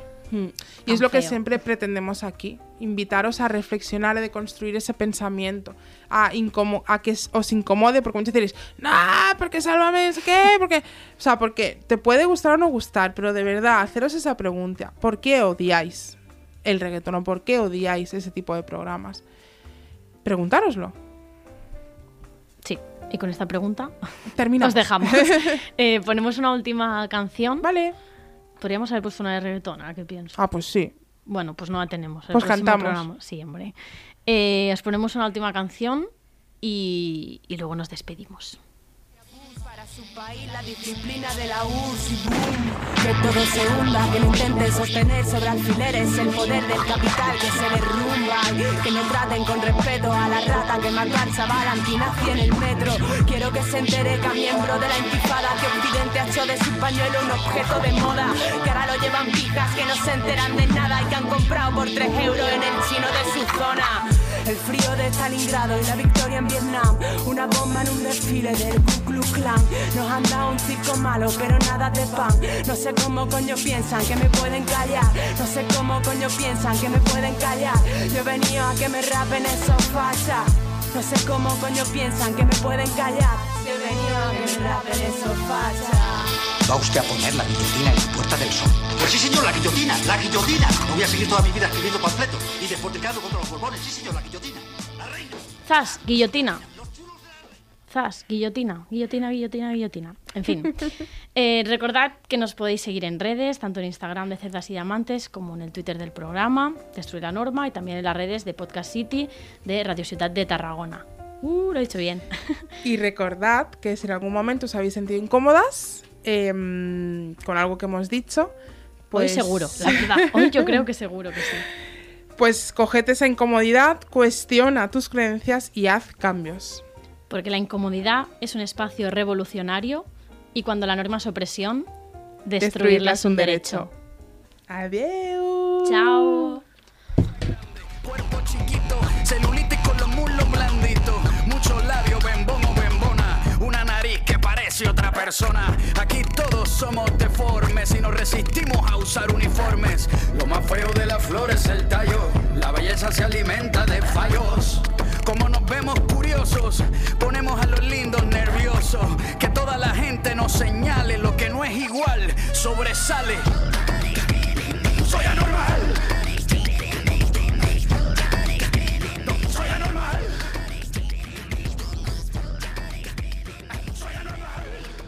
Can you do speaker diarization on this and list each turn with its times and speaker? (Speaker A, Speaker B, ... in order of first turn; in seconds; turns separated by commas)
Speaker A: 0.3-19.2, Speaker B: 0.9-1.4, Speaker A: 20.2-20.9, Speaker B: 22.6-23.9, Speaker A: 24.3-25.6, Speaker B: 24.6-27.7, Speaker A: 27.6-27.9, Speaker B: 28.6-30.4, Speaker A: 30.4-30.9, Speaker B: 31.3-33.7, Speaker A: 32.3-33.0, Speaker B: 34.3-36.1, Speaker B: 36.6-38.6, Speaker C: 39.4-86.3, Speaker D: 86.7-95.3, Speaker B: 95.7-96.6, Speaker B: 97.9-112.7, Speaker A: 112.8-118.5, Speaker A: 119.1-120.8, Speaker B: 119.1-121.7, Speaker A: 122.4-126.8, Speaker B: 127.3-131.9, Speaker B: 132.4-133.9, Speaker A: 132.6-133.9, Speaker A: 134.7-136.6, Speaker B: 135.8-136.6, Speaker E: 137.9-163.5, Speaker E: 165.0-166.1, Speaker E: 169.2-170.3